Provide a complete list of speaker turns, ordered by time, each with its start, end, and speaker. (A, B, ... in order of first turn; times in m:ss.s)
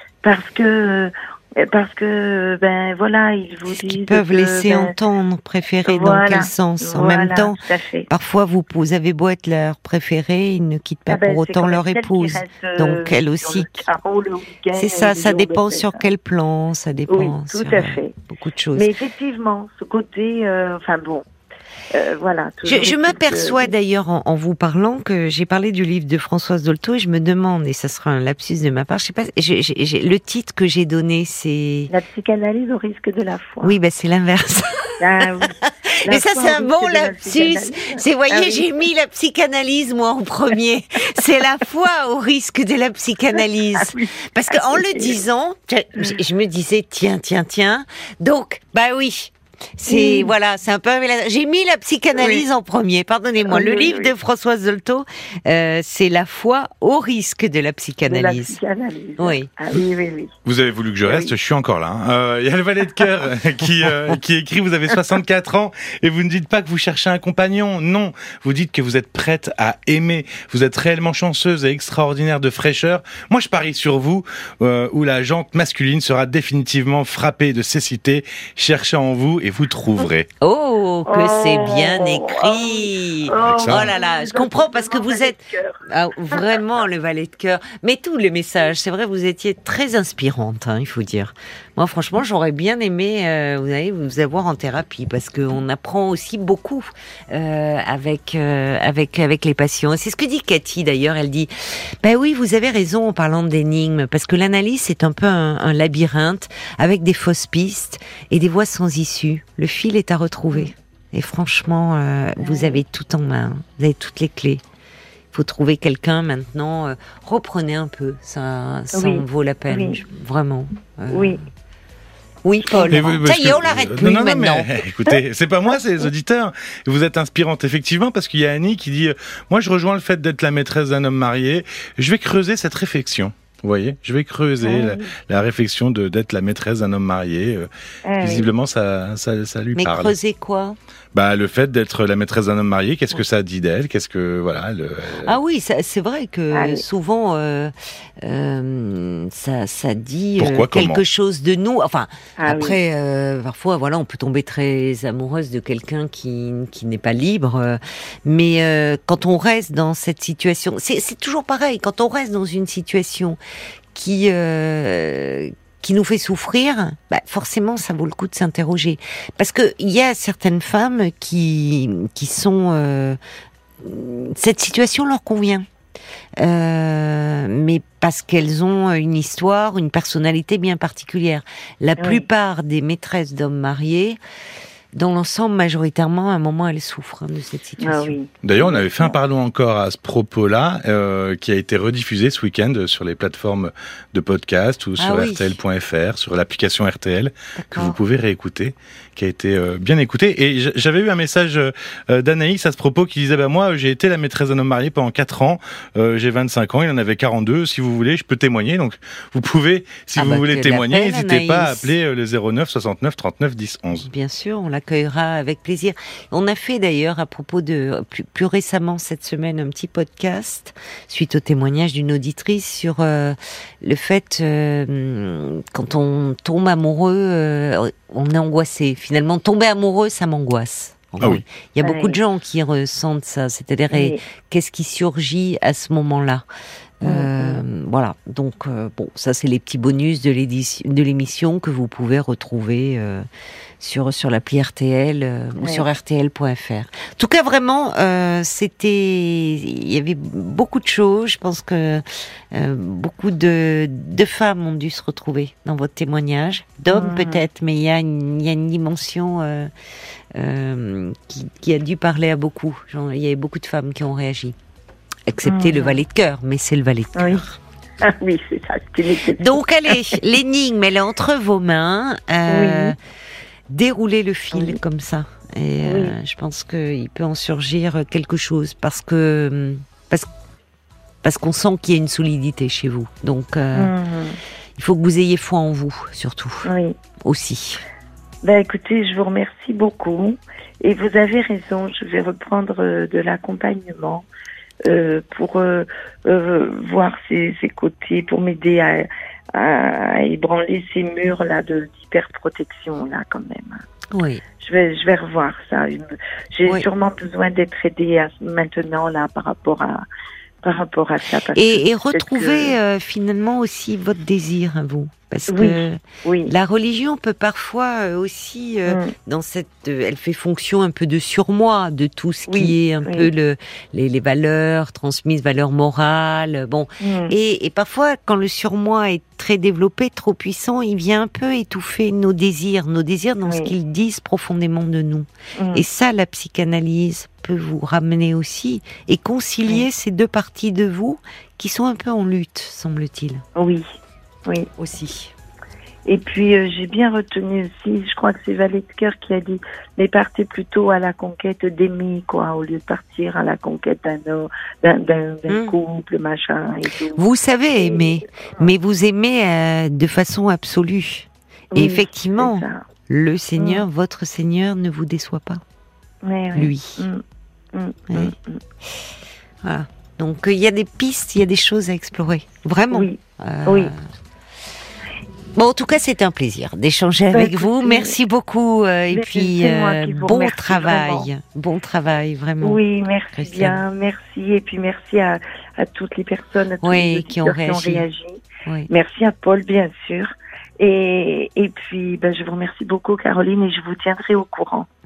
0:00.2-0:04.9 A
0:03.7-0:13.8 B
0:05.8-0:08.1 A
0:11.1-0:16.0 A
0:14.7-0:18.9 B
0:17.1-0:18.1 A
0:18.7-0:21.2 A
0:21.9-0:23.7 A
0:22.6-0:31.9 B
0:31.9-0:33.8 A
0:33.6-0:35.0 B
0:35.0-0:38.7 A
0:35.8-0:58.6 B
0:43.4-0:45.2 A
0:49.9-0:50.3 A
0:52.1-0:52.4 A
0:53.4-0:54.1 A
0:58.0-1:00.3 A
0:59.2-0:59.5 B
1:00.4-1:20.3 C
1:01.0-1:01.3 A
1:20.4-1:54.6 B
1:21.1-1:26.6 A
1:23.4-1:23.9 C
1:52.4-1:52.8 A
1:55.3-2:01.4 B
1:58.9-2:00.0 A
2:01.1-2:01.4 A
2:02.4-2:04.8 B
2:02.6-2:03.1 A
2:02.9-2:20.2 C
2:14.6-2:15.1 A
2:18.0-2:18.5 A
2:19.7-2:20.8 B
2:21.1-2:25.4 C
2:25.2-2:43.4 B
2:26.5-2:26.8 A
2:30.4-2:31.0 C
2:32.4-2:32.8 A
2:43.9-2:53.2 B
2:53.8-2:55.7 B
2:56.4-3:04.2 B
3:02.0-3:02.2 A
3:04.9-3:08.1 B
3:07.8-3:09.2 A
3:08.4-3:34.1 C
3:15.0-3:15.6 B
3:17.6-3:18.0 B
3:30.2-3:31.9 B
3:34.0-3:56.4 B
3:51.8-3:52.2 A
3:53.9-3:54.2 A
3:57.0-4:03.2 B
3:57.0-3:57.6 A
4:03.8-4:19.7 B
4:16.9-4:17.4 A
4:20.3-4:24.6 B
4:25.3-4:27.6 B
4:25.4-4:26.0 A
4:27.1-4:27.4 A
4:28.0-4:30.2 A
4:29.3-4:33.0 B
4:32.5-4:32.9 A
4:33.7-4:40.3 B
4:34.5-4:34.8 A
4:35.8-4:36.1 A
4:41.2-4:43.9 B
4:43.7-4:44.4 A
4:44.8-4:47.8 B
4:46.6-4:47.0 A
4:48.4-4:54.2 A
4:54.8-5:03.8 A
5:04.1-5:04.4 B
5:04.6-5:10.0 A
5:10.6-5:12.8 A
5:11.5-5:43.4 B
5:15.5-5:16.5 A
5:18.9-5:19.1 A
5:22.5-5:23.3 A
5:27.0-5:27.3 A
5:33.4-5:33.7 A
5:35.6-5:35.8 A
5:43.5-5:44.7 A
5:44.8-5:45.3 B
5:46.0-5:57.2 A
5:55.5-5:55.8 B
5:57.2-6:05.6 B
5:57.8-5:58.7 A
6:01.7-6:02.8 A
6:03.6-6:03.8 A
6:06.2-6:08.6 A
6:06.5-6:07.1 B
6:09.6-6:14.0 B
6:12.9-6:13.9 A
6:15.5-6:22.8 B
6:17.3-6:18.1 A
6:19.1-6:21.3 A
6:22.6-6:34.9 A
6:23.3-6:23.8 B
6:26.8-6:28.0 B